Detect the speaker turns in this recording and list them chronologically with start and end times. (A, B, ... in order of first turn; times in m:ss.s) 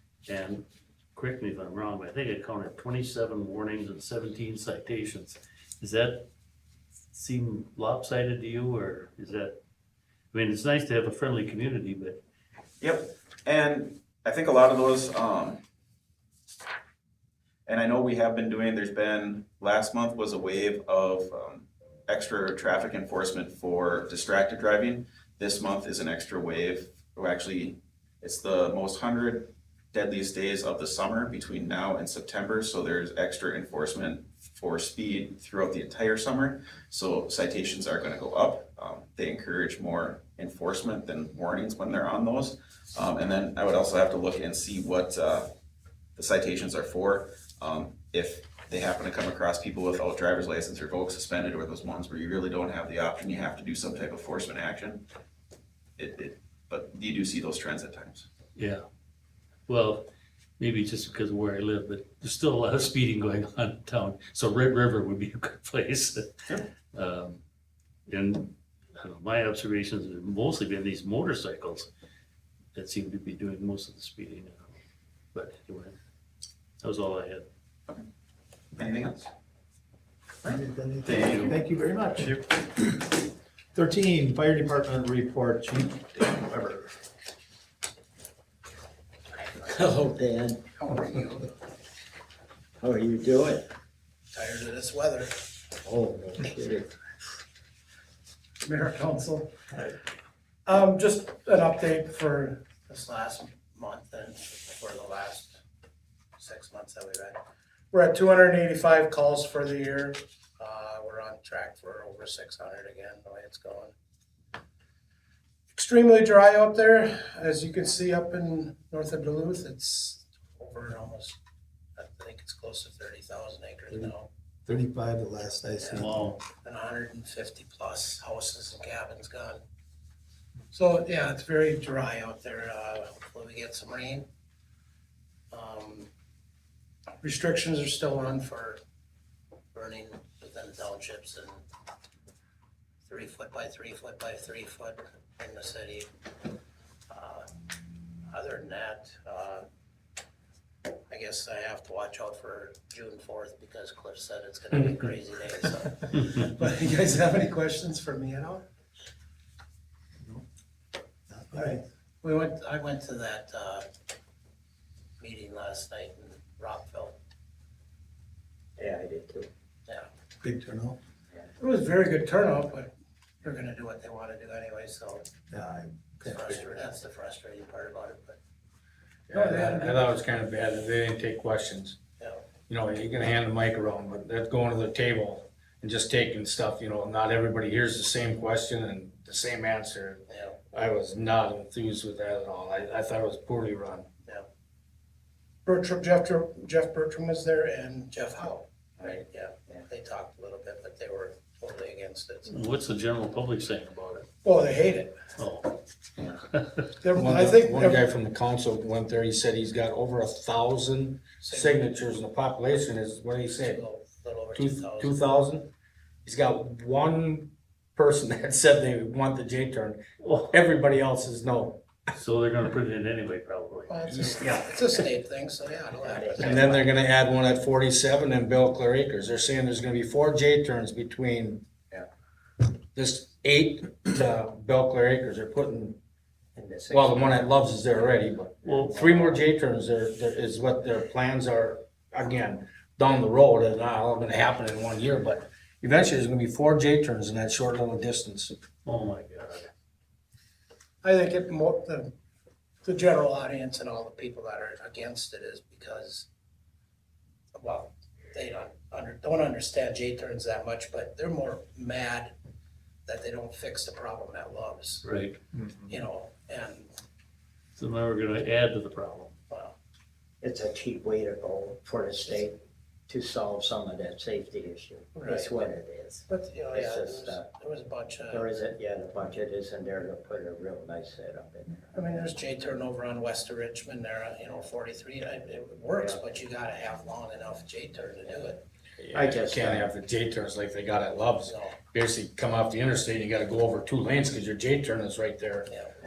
0:00.2-0:06.3 A
0:07.1-0:09.6 A
0:10.3-0:12.2 A
0:12.8-0:15.6 B
0:17.6-0:45.5 B
0:46.2-0:55.0 B
0:56.0-0:58.3 B
0:58.6-0:58.8 A
0:59.7-1:00.1 A
1:00.6-1:07.4 A
1:08.1-1:11.9 A
1:12.8-1:14.8 A
1:15.3-1:16.0 A
1:16.8-1:17.5 A
1:18.8-1:19.3 B
1:20.4-1:21.6 B
1:20.4-1:26.9 C
1:29.4-1:30.8 D
1:30.8-1:31.5 E
1:32.8-1:33.7 D
1:34.3-1:35.3 E
1:35.8-1:36.9 D
1:38.6-1:39.5 E
1:40.7-1:45.6 E
1:46.4-1:47.4 E
1:47.9-1:53.9 E
1:55.7-2:01.4 E
2:02.0-2:04.3 E
2:04.7-2:06.2 C
2:05.8-2:06.1 E
2:05.9-2:06.4 A
2:06.6-2:09.6 E
2:10.7-2:14.2 E
2:15.5-2:16.1 E
2:17.2-2:18.8 E
2:19.7-2:21.6 E
2:23.1-2:26.1 E
2:27.1-2:27.5 E
2:28.3-2:29.6 E
2:31.1-2:38.7 E
2:41.3-2:41.8 C
2:42.2-2:43.8 E
2:45.2-2:47.2 E
2:48.8-2:49.5 D
2:50.4-2:51.0 C
2:51.6-2:52.9 E
2:53.4-2:55.3 E
2:55.5-2:56.6 C
2:56.2-2:58.4 E
2:59.3-3:00.1 E
2:59.3-3:02.0 F
3:02.7-3:14.1 F
3:10.3-3:10.6 E
3:15.7-3:22.6 E
3:22.4-3:24.3 A
3:24.4-3:25.2 E
3:25.4-3:25.8 A
3:27.0-3:28.0 E
3:27.1-3:33.8 F
3:31.4-3:31.9 E
3:33.5-3:35.2 E
3:34.5-3:35.7 F
3:36.2-3:41.8 F
3:40.2-3:40.5 A
3:42.1-3:44.0 A
3:43.9-3:46.7 E
3:44.1-3:44.7 F
3:46.0-3:46.8 D
3:46.4-3:51.6 F
3:52.9-3:56.0 F
3:56.6-3:58.1 D
3:56.9-4:08.6 F
3:58.6-3:59.1 A
4:08.8-4:09.7 A
4:11.0-4:12.1 E
4:12.8-4:16.3 E
4:17.6-4:22.3 E
4:23.1-4:25.0 E
4:25.0-4:25.4 A
4:25.9-4:26.9 E
4:27.8-4:29.3 A
4:29.5-4:29.8 E
4:30.4-4:37.5 D
4:35.1-4:35.6 E
4:36.3-4:38.5 E
4:38.3-4:41.9 D
4:41.9-4:48.6 E
4:49.1-4:55.7 F
4:49.1-4:49.9 D
4:51.4-4:51.8 E
4:55.7-4:56.0 E